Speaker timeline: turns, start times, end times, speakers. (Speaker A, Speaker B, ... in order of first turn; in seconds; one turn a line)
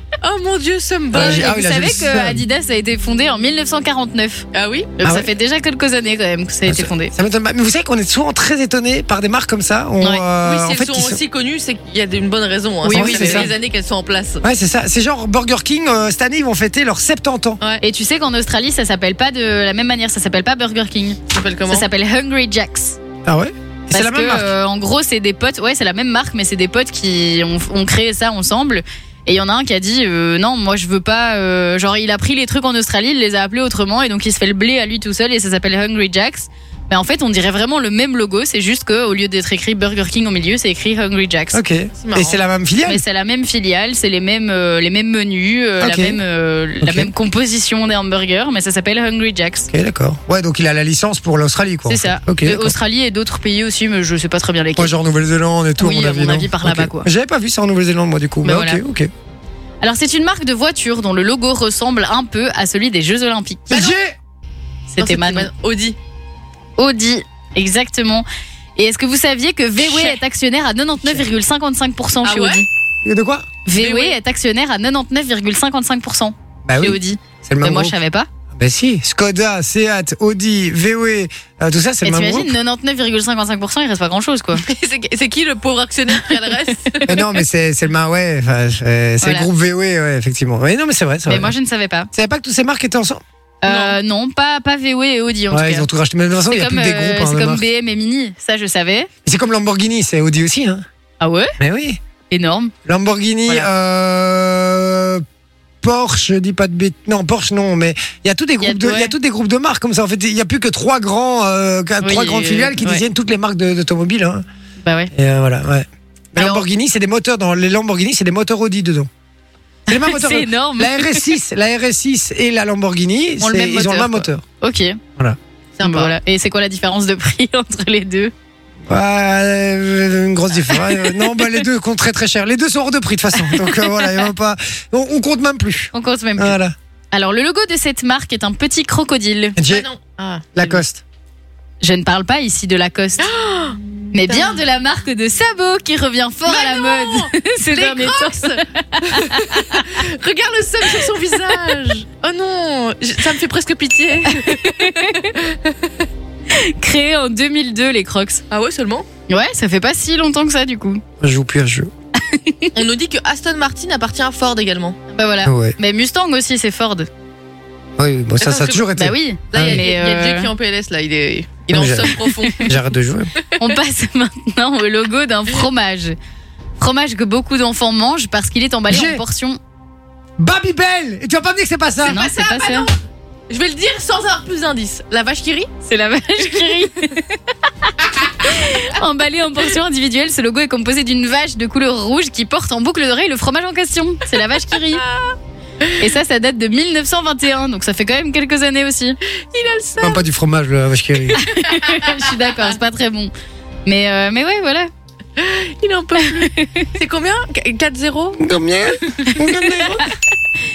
Speaker A: 0.2-1.5
Speaker B: 1.1-2.4
Speaker C: 1.1-4.4
Speaker A: 4.5-5.0
Speaker C: 5.0-7.1
Speaker B: 5.0-5.3
Speaker B: 6.7-11.2
Speaker A: 10.4-14.4
Speaker C: 12.8-13.5
Speaker B: 12.9-13.5
Speaker B: 14.4-17.6
Speaker C: 17.8-23.0
Speaker A: 21.3-21.9
Speaker B: 23.2-24.5
Speaker C: 23.9-41.6
Speaker B: 41.5-43.0
Speaker A: 42.0-42.4
Speaker C: 42.9-49.7
Speaker B: 45.8-46.2
Speaker B: 46.8-47.1
Speaker B: 49.7-52.7
Speaker C: 51.9-54.9
Speaker B: 54.8-59.1
Speaker C: 55.8-57.1
Speaker C: 58.4-58.8
Speaker C: 59.8-63.7
Speaker B: 63.7-64.2
Speaker A: 63.7-64.0
Speaker C: 64.9-65.5
Speaker A: 65.0-66.0
Speaker C: 66.8-68.2
Speaker C: 68.8-72.7
Speaker A: 69.8-70.2
Speaker A: 72.2-72.7
Speaker B: 73.0-73.5
Speaker C: 73.7-78.3
Speaker A: 73.7-74.2
Speaker B: 76.6-78.0
Speaker B: 78.5-82.5
Speaker C: 82.0-84.6
Speaker A: 84.5-87.2
Speaker B: 87.1-91.5
Speaker C: 89.2-89.5
Speaker C: 91.3-92.1
Speaker B: 92.1-93.2
Speaker C: 93.6-95.9
Speaker A: 93.7-94.0
Speaker B: 95.5-97.6
Speaker C: 96.5-99.1
Speaker B: 99.2-100.8
Speaker C: 101.2-101.5
Speaker B: 101.6-102.0
Speaker C: 102.3-102.7
Speaker B: 102.8-105.2
Speaker B: 105.8-114.4
Speaker C: 108.6-109.1
Speaker C: 112.0-113.0
Speaker C: 114.8-115.1
Speaker B: 115.1-119.1
Speaker C: 116.4-116.7
Speaker B: 119.9-124.4
Speaker C: 119.9-121.3
Speaker C: 123.4-125.0
Speaker A: 125.8-126.1
Speaker C: 125.8-128.3
Speaker B: 128.8-136.7
Speaker C: 130.7-131.6
Speaker C: 133.4-134.2
Speaker C: 135.9-136.6
Speaker C: 137.1-139.6
Speaker B: 139.6-139.9
Speaker A: 139.7-140.6
Speaker B: 140.5-141.0
Speaker C: 141.8-143.3
Speaker A: 143.2-144.6
Speaker C: 144.1-150.0
Speaker A: 146.4-156.0
Speaker C: 151.2-151.7
Speaker C: 154.3-155.3
Speaker C: 156.5-158.4
Speaker A: 158.5-159.1
Speaker C: 159.3-161.0
Speaker B: 161.2-161.9
Speaker C: 162.2-162.7
Speaker A: 162.7-165.0
Speaker C: 165.1-167.1
Speaker B: 165.4-165.8
Speaker B: 168.0-169.8
Speaker A: 168.4-168.9
Speaker C: 168.9-170.5
Speaker A: 169.5-172.8
Speaker B: 171.7-173.3
Speaker C: 172.2-172.6
Speaker A: 173.4-173.7
Speaker C: 173.6-176.2
Speaker C: 176.8-179.6
Speaker B: 178.9-179.2
Speaker B: 180.4-182.2
Speaker A: 182.0-182.9
Speaker C: 182.1-182.9
Speaker A: 183.5-185.7
Speaker C: 185.8-195.0
Speaker A: 195.0-196.0
Speaker C: 196.0-199.2
Speaker A: 199.4-200.2
Speaker B: 200.0-201.4
Speaker C: 201.4-203.3
Speaker A: 201.6-202.6
Speaker C: 203.8-204.9
Speaker A: 205.4-208.4
Speaker C: 206.2-206.9
Speaker B: 208.4-210.0